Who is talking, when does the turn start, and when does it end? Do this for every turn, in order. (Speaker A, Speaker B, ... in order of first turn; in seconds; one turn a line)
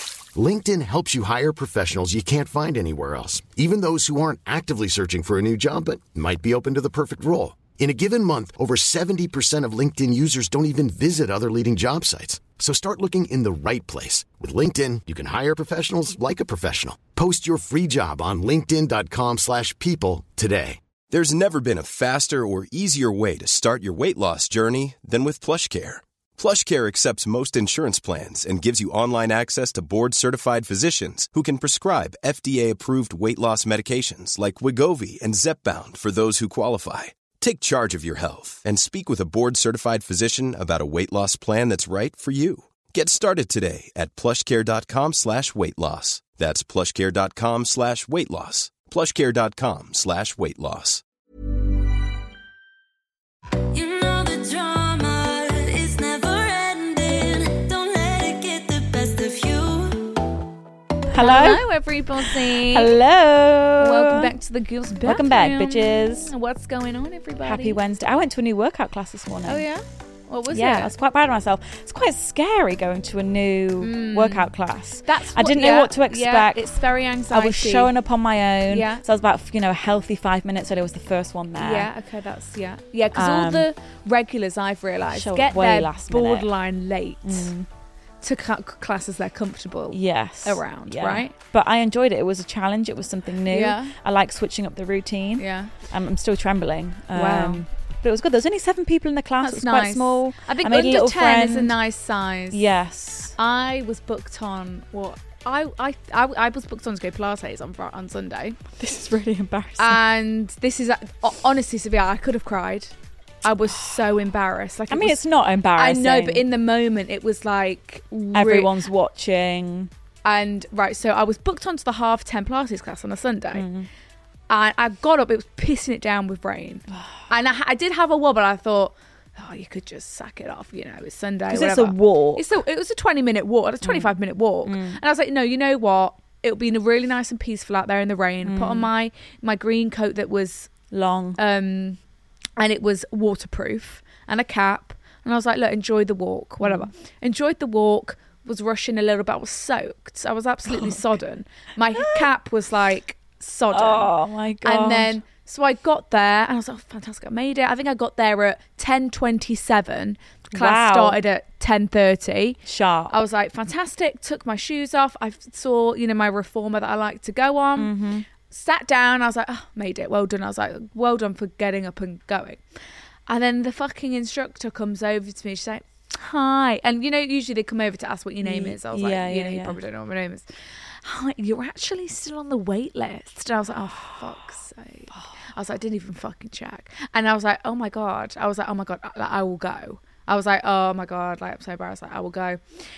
Speaker A: 0.3-20.8
Speaker B: 21.1-51.0
Speaker C: 53.7-60.2
Speaker D: 61.1-61.6
Speaker E: 61.1-62.9
Speaker D: 62.3-64.3
Speaker E: 63.8-67.8
Speaker D: 65.0-66.3
Speaker D: 67.4-69.6
Speaker E: 69.4-70.9
Speaker D: 70.5-76.6
Speaker E: 73.8-74.5
Speaker E: 75.0-77.9
Speaker D: 77.3-81.9
Speaker E: 78.7-79.0
Speaker E: 81.5-87.5
Speaker D: 83.1-83.7
Speaker D: 85.1-86.5
Speaker D: 87.2-87.7
Speaker E: 88.2-91.3
Speaker D: 89.9-101.7
Speaker E: 93.5-93.9
Speaker E: 95.4-95.7
Speaker E: 97.1-97.6
Speaker E: 99.4-102.6
Speaker D: 102.5-103.3
Speaker E: 103.3-108.6
Speaker D: 108.8-110.0
Speaker E: 109.8-112.9
Speaker E: 113.4-115.2
Speaker D: 114.9-116.4
Speaker E: 115.8-118.7
Speaker D: 118.3-119.9
Speaker E: 120.2-123.7
Speaker D: 123.5-123.9
Speaker E: 124.5-140.7
Speaker D: 131.5-132.4
Speaker D: 133.8-134.1
Speaker D: 134.7-135.0
Speaker D: 138.4-138.9
Speaker D: 140.9-141.4
Speaker E: 141.3-142.0
Speaker E: 142.6-162.6
Speaker D: 152.0-152.2
Speaker D: 153.7-155.1
Speaker D: 160.5-161.2
Speaker D: 162.6-163.2
Speaker E: 163.1-167.9
Speaker D: 167.8-168.2
Speaker E: 168.5-172.6
Speaker E: 173.3-180.4
Speaker D: 178.4-179.8
Speaker E: 181.0-192.6